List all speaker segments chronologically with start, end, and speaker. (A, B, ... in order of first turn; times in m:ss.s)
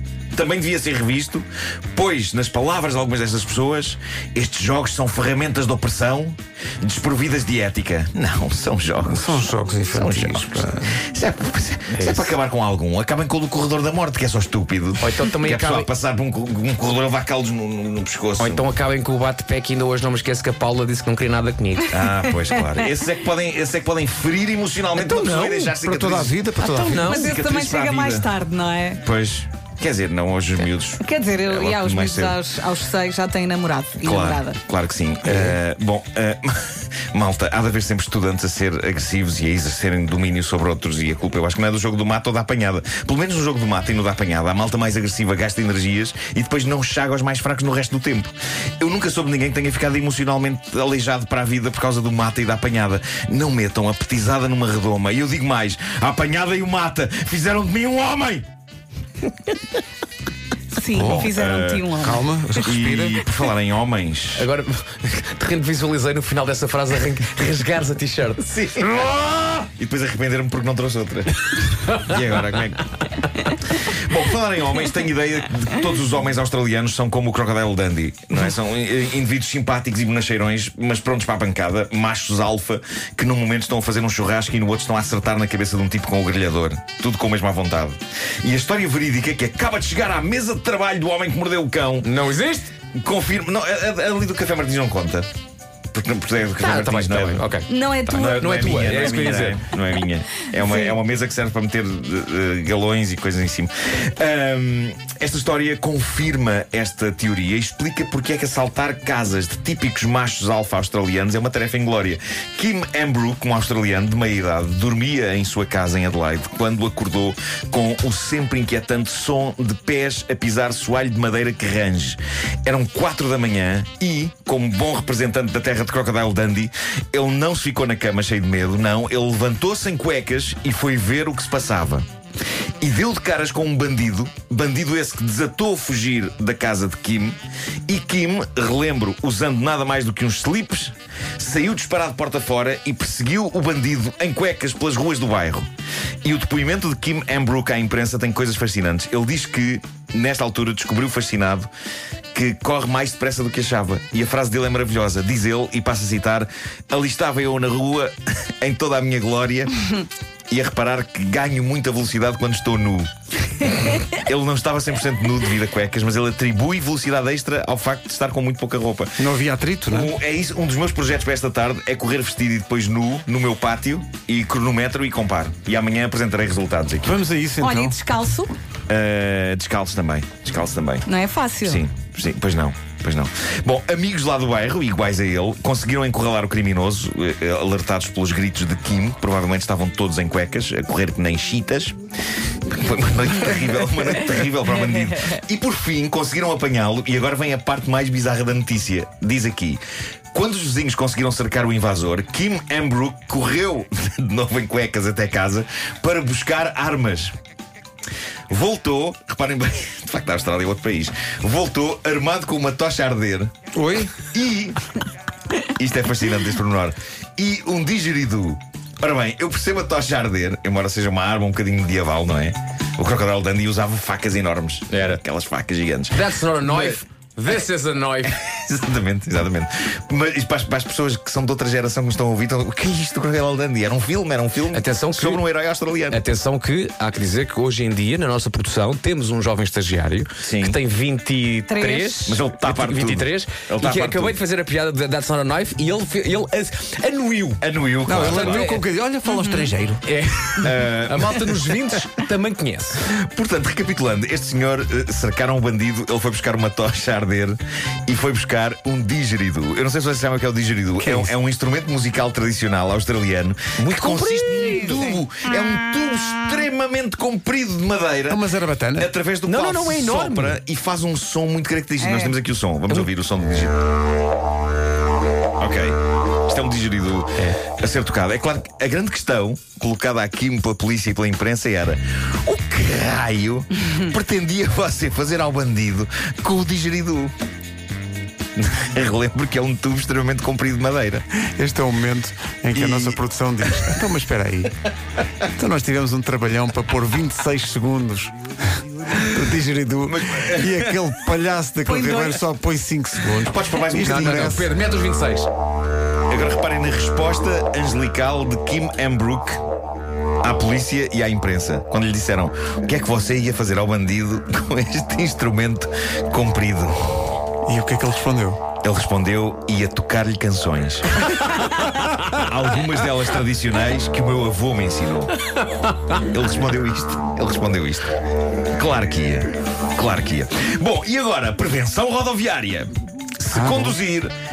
0:00.3-0:18.6 A
0:09.1-0:11.0 B
0:11.9-0:12.4 C
0:15.0-0:15.9 C
0:18.4-0:22.0 C
0:21.9-0:28.3 A
0:25.0-0:25.7 C
0:25.8-0:27.2 B
0:26.7-0:27.3 C
0:27.0-0:29.0 D
0:29.0-0:32.4 A
0:31.0-0:34.6 D
0:34.0-0:58.5 A
0:35.2-0:35.6 B
1:00.8-1:02.3 D
1:00.9-1:02.0 A
1:00.9-1:01.3 B
1:02.0-1:03.2 B
1:02.5-1:04.5 A
1:04.3-1:08.5 C
1:08.4-1:12.8 A
1:13.6-1:32.1 A
1:32.0-1:32.7 C
1:32.9-1:35.3 A
1:35.9-1:37.5 A
1:36.6-1:39.6 C
1:37.7-1:38.8 D
1:38.1-2:12.1 A
1:40.5-1:40.8 D
2:12.8-2:25.7 A
2:26.2-2:31.7 A
2:32.3-2:40.0 A
2:40.5-2:49.1 A
2:49.2-2:50.1 B
2:49.9-2:57.2 A
2:57.0-2:58.0 B
2:57.6-2:58.5 D
2:58.9-3:01.1 A
3:01.1-3:01.8 D
3:01.6-3:12.0 A
3:12.7-3:19.8 A
3:20.3-3:27.3 A
3:28.5-3:33.5 A
3:33.7-3:34.1 B
3:34.2-3:34.8 A
3:35.8-3:47.0 A
3:44.9-3:45.2 C
3:46.1-3:48.4 C
3:48.2-3:56.2 A
3:54.7-3:55.4 C
3:56.1-4:07.6 C
4:00.4-4:00.8 A
4:01.7-4:02.2 D
4:02.2-4:04.4 A
4:07.6-4:08.8 A
4:08.0-4:10.0 B
4:08.1-4:08.8 C
4:09.3-4:09.7 D
4:10.0-4:13.0 C
4:10.6-4:12.1 A
4:13.1-4:28.4 A
4:21.0-4:21.3 B
4:23.8-4:25.2 C
4:28.3-4:29.1 B
4:29.0-4:33.8 A
4:29.4-4:30.6 C
4:32.0-4:32.3 D
4:35.6-4:47.3 A
4:48.6-4:51.2 A
4:51.6-4:54.7 B
4:52.7-4:53.2 A
4:53.7-4:54.0 A
4:55.6-5:04.7 B
5:00.0-5:01.0 A
5:01.8-5:02.4 D
5:03.3-5:05.5 C
5:03.3-5:04.5 A
5:06.3-5:09.6 A
5:10.4-5:16.9 A
5:17.6-5:18.6 B
5:18.8-5:21.6 A
5:22.1-5:25.3 A
5:26.1-5:28.1 A
5:28.7-5:34.3 A
5:33.5-5:34.0 B